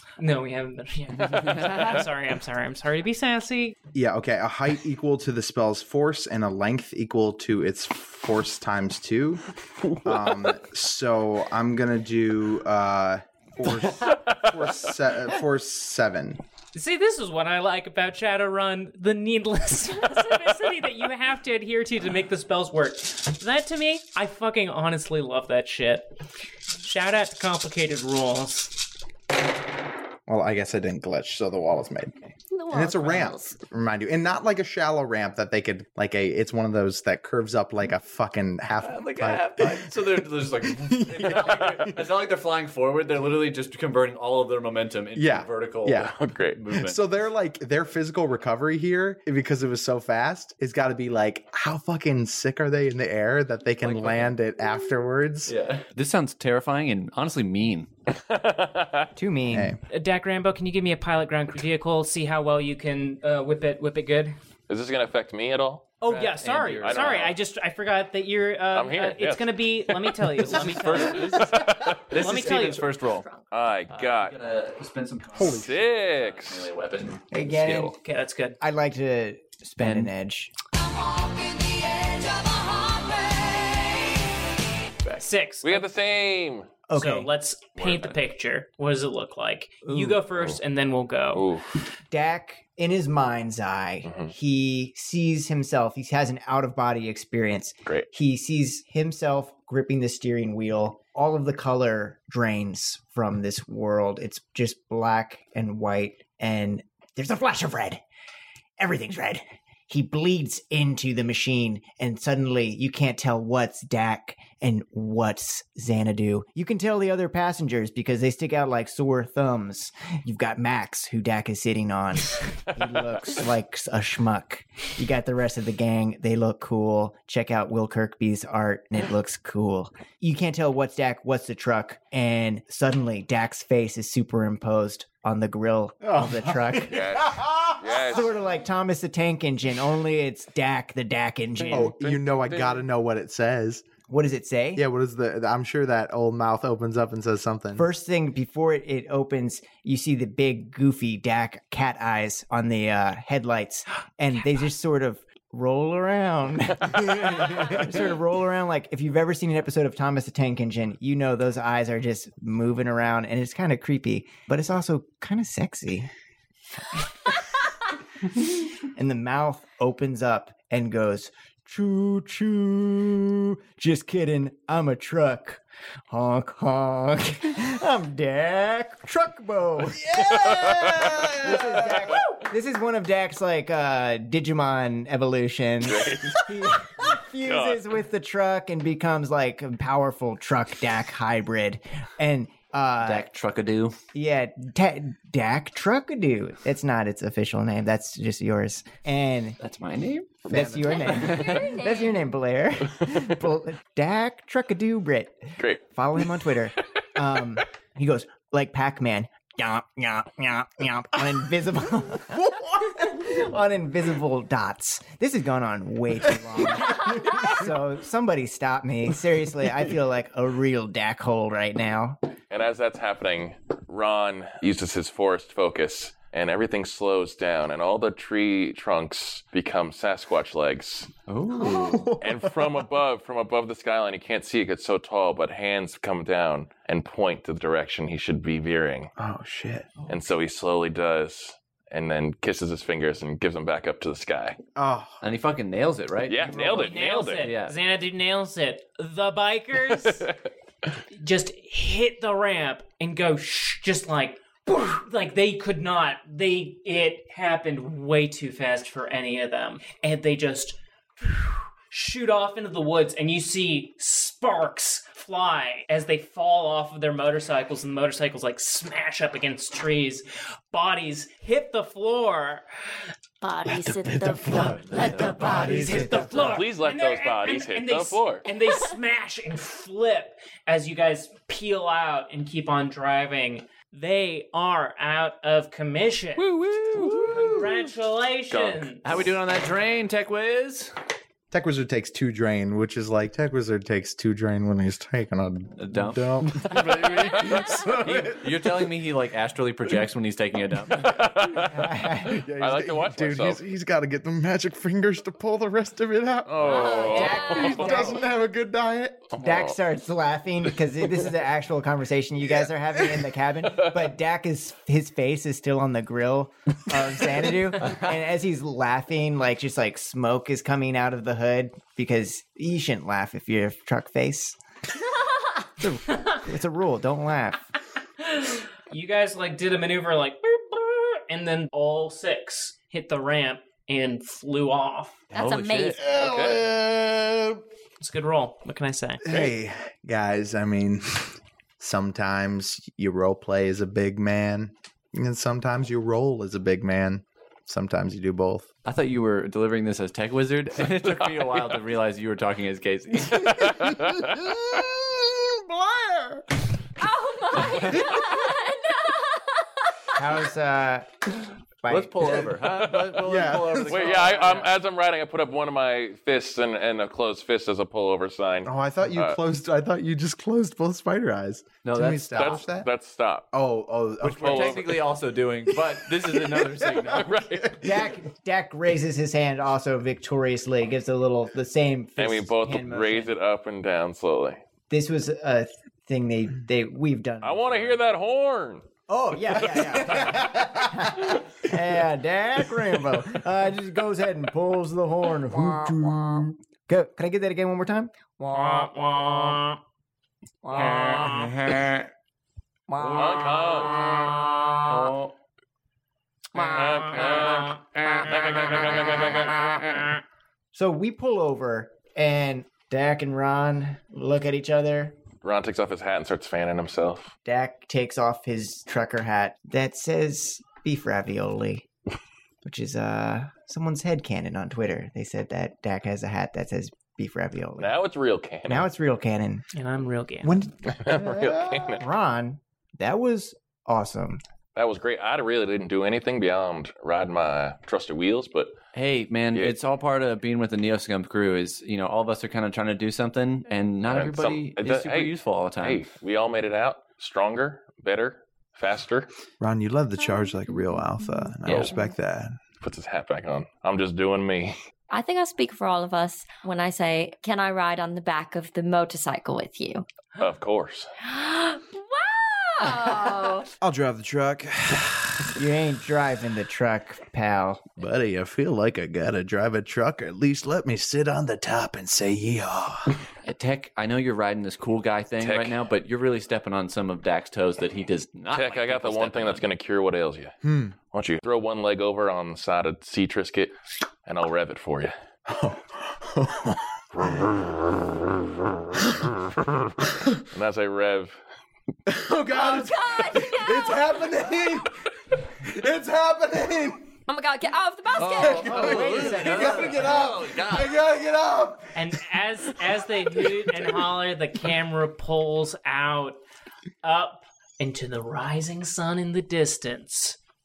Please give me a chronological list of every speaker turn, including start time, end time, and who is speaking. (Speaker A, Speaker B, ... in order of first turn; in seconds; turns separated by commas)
Speaker A: 0.2-3.7, Speaker B: 3.9-9.4, Speaker B: 10.0-16.4, Speaker A: 16.7-26.1, Speaker A: 26.8-28.8, Speaker B: 30.3-42.1, Speaker C: 32.5-33.6, Speaker D: 38.8-47.0, Speaker B: 45.1-46.1, Speaker E: 45.9-46.6, Speaker B: 46.7-55.5, Speaker D: 53.8-54.3, Speaker D: 55.5-57.9, Speaker E: 58.1-59.1, Speaker F: 59.1-59.8, Speaker B: 59.5-59.8, Speaker A: 59.9-64.3, Speaker E: 64.7-65.9, Speaker A: 66.0-71.3, Speaker D: 66.0-67.2, Speaker E: 66.8-67.3, Speaker E: 68.7-70.2, Speaker D: 70.3-73.2, Speaker E: 70.9-72.0, Speaker A: 72.1-72.9, Speaker C: 73.1-73.5, Speaker E: 73.5-74.4, Speaker D: 73.9-78.0, Speaker B: 75.3-75.8, Speaker E: 75.4-76.7, Speaker F: 77.3-77.9, Speaker A: 78.0-78.6, Speaker F: 78.6-80.5, Speaker D: 79.8-80.1, Speaker A: 85.0-85.9, Speaker E: 85.6-86.7, Speaker F: 86.9-87.3, Speaker A: 86.9-91.5, Speaker E: 87.8-88.2, Speaker E: 91.3-91.7, Speaker F: 92.1-108.0, Speaker E: 94.0-94.3, Speaker F: 108.8-137.3, Speaker B: 136.0-138.0, Speaker E: 136.8-138.3, Speaker F: 137.8-141.9, Speaker E: 141.6-142.8, Speaker B: 141.7-143.8, Speaker F: 144.1-144.8, Speaker B: 144.8-147.8, Speaker F: 147.7-166.1, Speaker F: 168.8-180.0, Speaker B: 179.9-182.1, Speaker E: 180.1-181.3, Speaker F: 181.3-193.3, Speaker E: 181.9-182.2, Speaker E: 185.8-187.8, Speaker D: 193.0-193.9, Speaker F: 194.1-199.6, Speaker D: 199.6-201.7, Speaker F: 200.5-222.2, Speaker C: 200.9-202.2, Speaker E: 222.5-231.1, Speaker D: 231.3-232.0, Speaker B: 231.5-232.7, Speaker C: 231.7-231.9, Speaker E: 232.2-239.1, Speaker B: 239.2-240.0, Speaker E: 240.1-244.6, Speaker B: 244.8-245.2, Speaker D: 245.2-247.7, Speaker E: 246.3-247.5, Speaker A: 246.5-250.3, Speaker A: 251.1-272.6, Speaker C: 273.4-275.6, Speaker B: 273.7-276.5, Speaker D: 274.9-275.3, Speaker F: 275.2-276.6, Speaker A: 275.3-286.5, Speaker E: 276.4-278.4, Speaker E: 286.9-287.3, Speaker D: 286.9-287.4, Speaker B: 286.9-287.3, Speaker A: 287.1-289.0, Speaker E: 288.5-288.9, Speaker D: 289.0-290.9, Speaker B: 291.5-298.9, Speaker D: 295.8-296.8, Speaker E: 296.6-297.8, Speaker D: 298.0-301.2, Speaker E: 300.9-303.6, Speaker B: 301.6-309.3, Speaker F: 301.6-302.4, Speaker E: 306.4-308.1, Speaker C: 306.6-308.0, Speaker F: 306.7-308.2, Speaker E: 309.3-309.7, Speaker F: 309.4-324.6, Speaker D: 317.8-318.1, Speaker F: 325.8-327.7, Speaker A: 326.1-326.4, Speaker A: 328.2-335.2, Speaker C: 335.3-336.1, Speaker D: 335.3-336.5, Speaker B: 336.0-337.6, Speaker E: 336.1-336.6, Speaker A: 338.0-339.2, Speaker B: 339.2-348.7, Speaker D: 348.8-353.9, Speaker E: 353.5-354.2, Speaker B: 354.3-356.4, Speaker C: 357.0-360.2, Speaker F: 360.1-362.4, Speaker D: 361.9-364.7, Speaker E: 362.7-363.2, Speaker B: 363.2-364.2, Speaker E: 363.7-369.4, Speaker B: 368.6-372.9, Speaker D: 371.8-372.7, Speaker E: 372.3-373.5, Speaker B: 373.5-377.7, Speaker D: 374.2-377.4, Speaker E: 374.4-375.0, Speaker E: 377.0-377.9, Speaker F: 377.7-383.3, Speaker E: 382.2-384.6, Speaker F: 384.9-388.0, Speaker E: 387.4-388.9, Speaker F: 389.1-399.3, Speaker B: 390.1-390.7, Speaker A: 398.7-399.4, Speaker F: 400.6-401.7, Speaker A: 400.9-401.5, Speaker F: 402.9-403.3, Speaker D: 403.0-403.4, Speaker E: 403.0-404.1, Speaker D: 404.9-405.3, Speaker E: 406.5-410.0, Speaker F: 410.7-415.1, Speaker E: 415.4-417.3, Speaker F: 417.4-421.9, Speaker F: 422.6-428.0, Speaker E: 427.8-428.9, Speaker F: 428.7-429.6, Speaker A: 429.7-430.6, Speaker F: 430.4-434.4, Speaker E: 430.9-432.0, Speaker B: 431.3-431.8, Speaker E: 434.7-438.8, Speaker D: 438.9-446.0, Speaker E: 444.1-449.3, Speaker B: 449.6-452.6, Speaker C: 450.3-451.0, Speaker D: 451.6-452.0, Speaker E: 452.8-454.8, Speaker C: 455.1-460.1, Speaker E: 460.4-461.1, Speaker C: 461.2-463.7, Speaker B: 463.8-465.5, Speaker F: 465.5-467.8, Speaker B: 468.0-473.2, Speaker D: 473.4-479.6, Speaker E: 475.4-475.9, Speaker E: 478.5-480.5, Speaker B: 480.6-480.9, Speaker E: 481.1-485.1, Speaker B: 485.5-487.6, Speaker B: 489.0-489.2, Speaker B: 490.0-490.4, Speaker E: 490.5-491.4, Speaker B: 492.1-494.9, Speaker C: 492.5-494.6, Speaker B: 495.5-497.1, Speaker C: 497.3-499.0, Speaker D: 498.1-501.0, Speaker B: 498.2-502.0, Speaker F: 498.6-500.2, Speaker A: 501.9-506.4, Speaker A: 507.0-510.4